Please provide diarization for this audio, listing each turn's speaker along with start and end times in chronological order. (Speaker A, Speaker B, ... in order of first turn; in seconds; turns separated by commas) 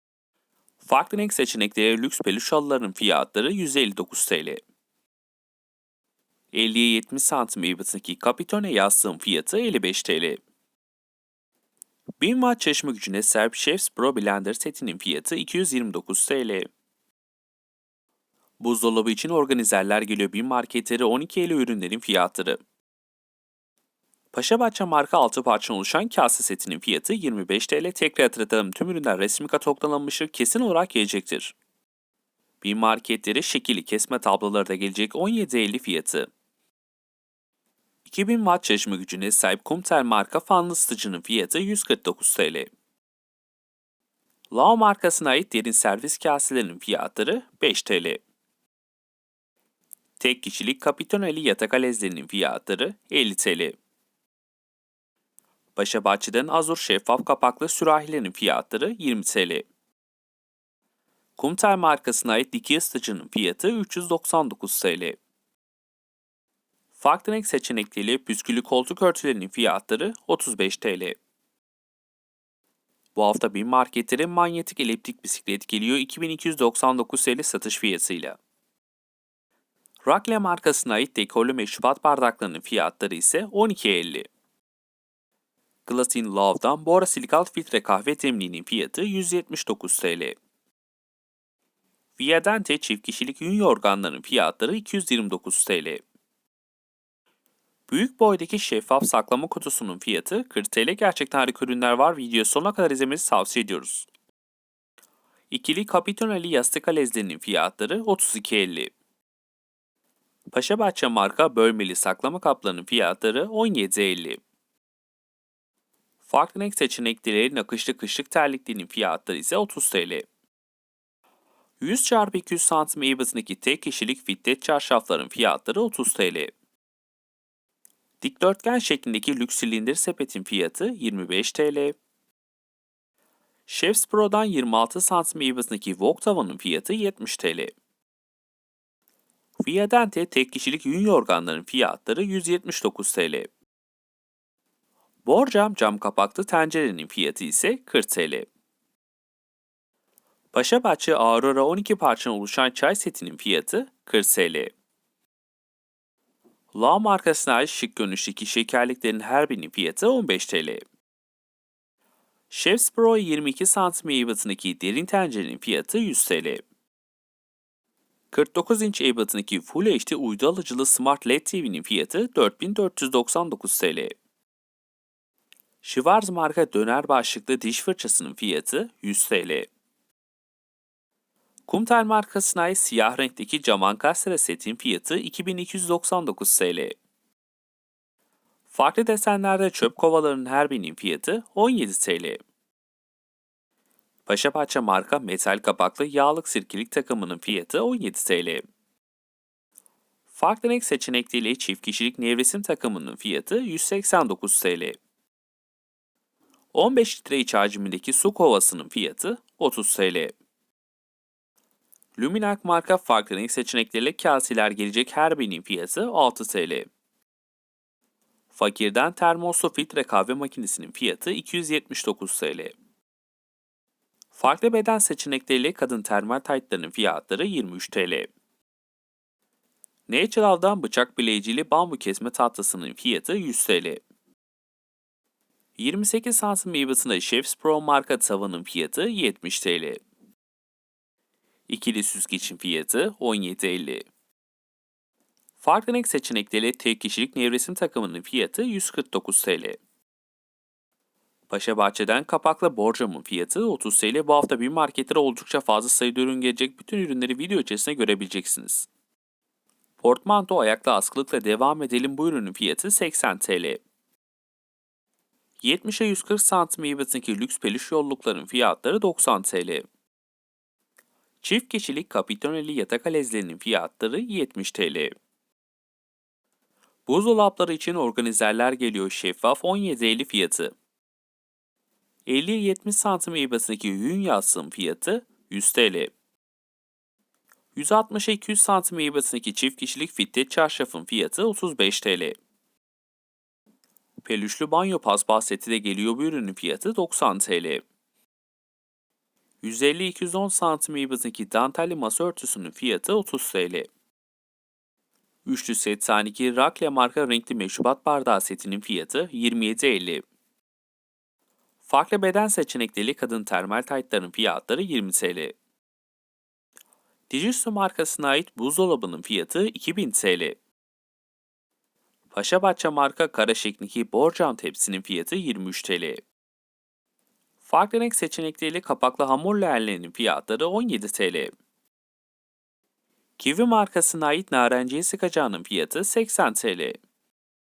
Speaker A: 0.8-4.6, Speaker A: 6.5-10.4, Speaker A: 12.2-16.7, Speaker A: 18.6-22.6, Speaker A: 24.3-31.5, Speaker A: 32.6-36.3, Speaker A: 38.0-42.7, Speaker A: 44.5-48.2, Speaker A: 50.2-53.8, Speaker A: 55.8-59.7, Speaker A: 61.4-65.2, Speaker A: 67.0-71.2, Speaker A: 73.2-78.4, Speaker A: 80.0-84.3, Speaker A: 85.9-90.3, Speaker A: 92.2-96.0, Speaker A: 97.9-104.1, Speaker A: 105.5-108.9, Speaker A: 110.5-114.4, Speaker A: 116.2-120.3, Speaker A: 121.8-126.5, Speaker A: 128.2-132.0, Speaker A: 133.7-137.7, Speaker A: 139.6-143.5, Speaker A: 145.2-148.5, Speaker A: 150.5-154.7, Speaker A: 156.7-160.8, Speaker A: 162.5-166.6, Speaker A: 168.3-174.1, Speaker A: 175.8-179.7, Speaker A: 181.7-186.9, Speaker A: 188.7-192.4, Speaker A: 194.3-198.6, Speaker A: 200.3-205.0, Speaker A: 206.7-210.3, Speaker A: 212.2-216.9, Speaker A: 218.5-222.7, Speaker A: 224.3-228.3, Speaker A: 230.1-234.0, Speaker A: 235.8-240.0, Speaker A: 241.7-244.1, Speaker A: 245.6-249.8, Speaker A: 251.5-258.9, Speaker A: 260.0-263.8, Speaker A: 265.6-269.9, Speaker A: 271.4-275.1, Speaker A: 277.1-280.7, Speaker A: 282.3-286.1, Speaker A: 287.8-292.4, Speaker A: 294.2-297.8, Speaker A: 299.6-303.9, Speaker A: 305.4-310.2, Speaker A: 311.8-315.6, Speaker A: 317.3-320.6, Speaker A: 322.3-326.2, Speaker A: 327.6-331.5, Speaker A: 333.4-337.0